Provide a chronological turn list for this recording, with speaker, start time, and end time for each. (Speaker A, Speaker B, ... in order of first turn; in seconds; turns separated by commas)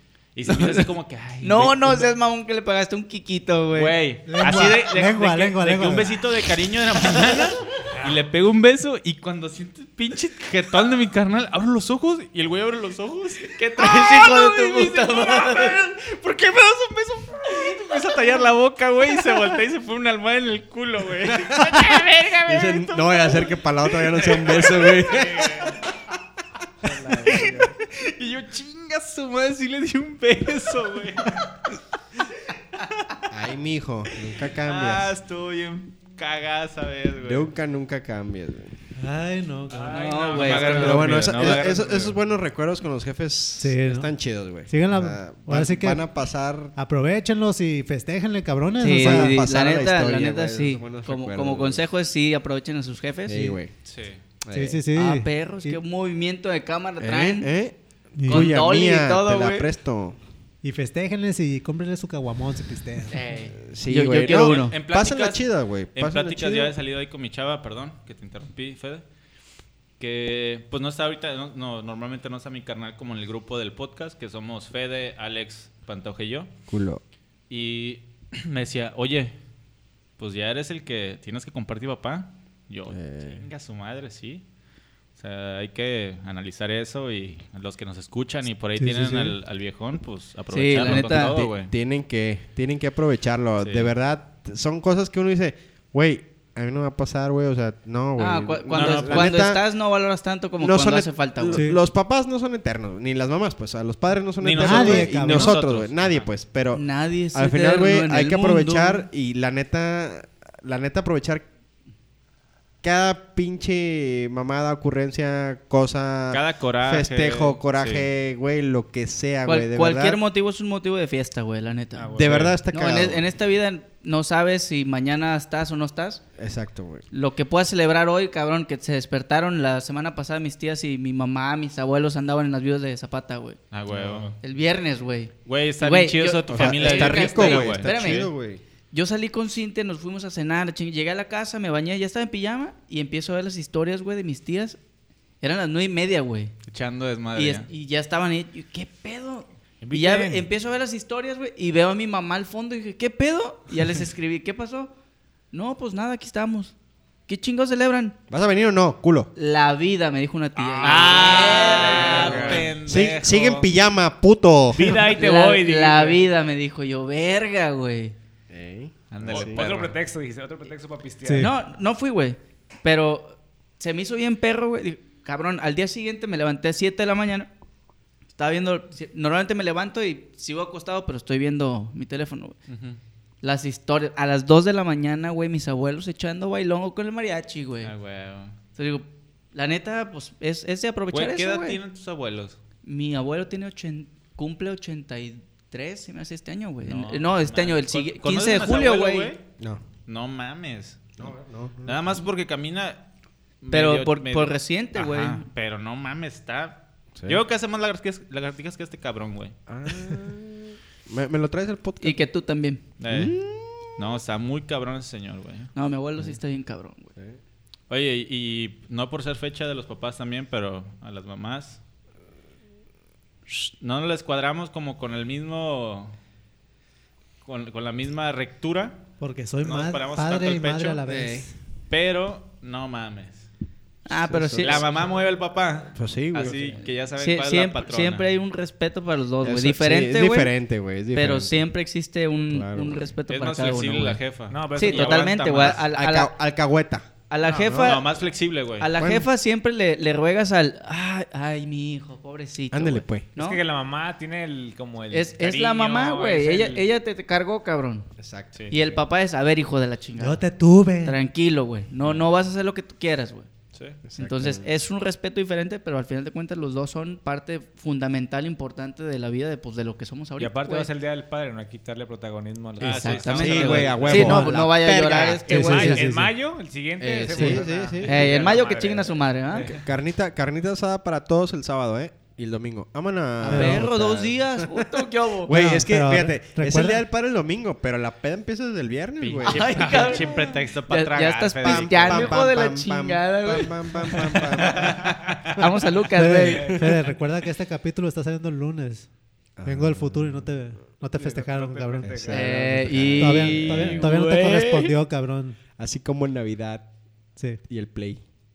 Speaker A: 0.3-2.1, Speaker B: 0.5-0.8, Speaker B: 1.4-4.0, Speaker A: 3.7-25.7, Speaker C: 4.2-6.2, Speaker B: 13.6-15.8, Speaker D: 22.4-25.7, Speaker E: 26.8-27.7, Speaker A: 27.0-31.6, Speaker A: 32.8-33.3, Speaker D: 33.3-35.1, Speaker A: 34.4-37.5, Speaker D: 37.2-38.8, Speaker C: 39.0-40.1, Speaker E: 39.7-41.7, Speaker A: 39.9-42.2, Speaker B: 39.9-41.4, Speaker D: 40.6-46.7, Speaker C: 43.6-44.1, Speaker C: 44.7-46.1, Speaker C: 46.8-49.4, Speaker B: 48.8-53.6, Speaker D: 48.9-51.8, Speaker D: 53.3-53.7, Speaker A: 53.9-54.2, Speaker D: 54.4-54.8, Speaker C: 54.5-55.8, Speaker B: 54.9-57.5, Speaker D: 57.0-60.2, Speaker C: 58.2-58.6, Speaker B: 58.3-59.7, Speaker C: 60.6-63.2, Speaker B: 63.1-64.8, Speaker D: 63.5-66.8, Speaker A: 64.3-69.0, Speaker A: 70.0-76.5, Speaker D: 76.7-77.0, Speaker A: 77.5-79.3, Speaker A: 80.2-84.4, Speaker D: 82.9-83.5, Speaker A: 85.2-91.7, Speaker D: 88.8-89.3, Speaker C: 89.0-89.3, Speaker B: 90.5-91.5, Speaker D: 90.8-99.6, Speaker A: 93.6-93.9, Speaker B: 98.2-101.7, Speaker A: 98.7-99.4, Speaker D: 100.6-111.5, Speaker C: 101.5-101.8, Speaker A: 104.4-106.3, Speaker C: 104.5-105.6, Speaker B: 106.7-109.0, Speaker D: 112.8-120.2, Speaker A: 116.3-118.1, Speaker B: 119.5-126.2, Speaker E: 122.0-122.6, Speaker D: 122.2-123.2, Speaker D: 126.4-127.1, Speaker B: 127.1-133.6, Speaker A: 133.7-134.4, Speaker D: 133.9-134.3, Speaker B: 134.4-138.3, Speaker A: 135.4-138.3, Speaker D: 136.5-138.6, Speaker B: 138.9-144.8, Speaker B: 145.4-146.5, Speaker A: 146.7-147.7, Speaker B: 147.3-154.9, Speaker A: 149.8-150.4, Speaker B: 155.5-156.7, Speaker B: 157.3-158.2, Speaker D: 158.3-159.3, Speaker B: 159.4-162.7, Speaker E: 160.6-162.7, Speaker A: 160.7-163.7, Speaker D: 162.9-165.0, Speaker E: 164.8-166.3, Speaker B: 164.9-168.2, Speaker D: 168.5-169.6, Speaker A: 169.1-169.9, Speaker E: 169.3-171.5, Speaker C: 171.2-171.6, Speaker B: 171.4-177.5, Speaker B: 178.3-182.6, Speaker A: 182.7-183.0, Speaker B: 183.4-187.9, Speaker A: 187.8-188.6, Speaker B: 188.8-191.8, Speaker A: 191.1-192.6, Speaker B: 192.8-199.3, Speaker A: 196.8-199.4, Speaker A: 200.1-201.3, Speaker D: 201.2-202.0, Speaker A: 201.8-203.0, Speaker A: 203.6-209.6, Speaker B: 203.7-205.4, Speaker D: 207.2-207.4, Speaker D: 209.7-212.2, Speaker B: 212.0-212.8, Speaker A: 213.0-213.3, Speaker D: 213.1-214.1, Speaker A: 214.0-215.7, Speaker B: 215.8-217.1, Speaker A: 217.9-221.8, Speaker A: 223.5-226.2, Speaker A: 227.4-229.0, Speaker C: 229.2-231.5, Speaker A: 229.6-231.0, Speaker D: 231.1-231.5, Speaker A: 231.9-233.5, Speaker B: 234.1-234.8, Speaker D: 234.1-234.9, Speaker A: 234.6-238.3, Speaker D: 235.9-236.8, Speaker B: 237.2-240.5, Speaker D: 239.4-241.7, Speaker B: 241.1-244.2, Speaker D: 242.5-243.0, Speaker A: 243.3-245.9, Speaker E: 244.5-245.3, Speaker B: 244.7-246.3, Speaker D: 245.5-247.1, Speaker B: 247.3-248.1, Speaker E: 247.4-247.9, Speaker A: 247.5-248.9, Speaker B: 248.8-253.6, Speaker D: 248.9-249.3, Speaker D: 252.7-253.3, Speaker E: 253.4-256.9, Speaker B: 255.1-258.1, Speaker D: 258.2-259.0, Speaker B: 258.7-260.4, Speaker C: 260.2-261.2, Speaker B: 261.0-263.5, Speaker A: 263.7-264.0, Speaker D: 264.1-264.7, Speaker B: 264.2-270.9, Speaker E: 270.4-274.4, Speaker A: 272.8-274.4, Speaker B: 272.8-276.1, Speaker D: 273.3-275.4, Speaker C: 274.1-274.5, Speaker E: 275.5-279.7, Speaker C: 275.5-276.3, Speaker D: 277.0-278.5, Speaker B: 277.3-279.7, Speaker D: 279.6-290.3, Speaker C: 283.4-283.9, Speaker B: 283.4-285.6, Speaker C: 285.5-287.0, Speaker A: 289.2-292.4, Speaker B: 289.4-294.7, Speaker D: 291.6-295.0, Speaker A: 294.4-295.6, Speaker B: 295.6-297.0, Speaker C: 296.1-299.1, Speaker D: 299.6-300.5, Speaker C: 299.6-302.6, Speaker E: 301.2-303.1, Speaker D: 302.0-304.1, Speaker B: 302.3-304.9, Speaker C: 303.1-305.6, Speaker D: 305.8-306.9, Speaker C: 307.4-307.6, Speaker D: 307.7-308.2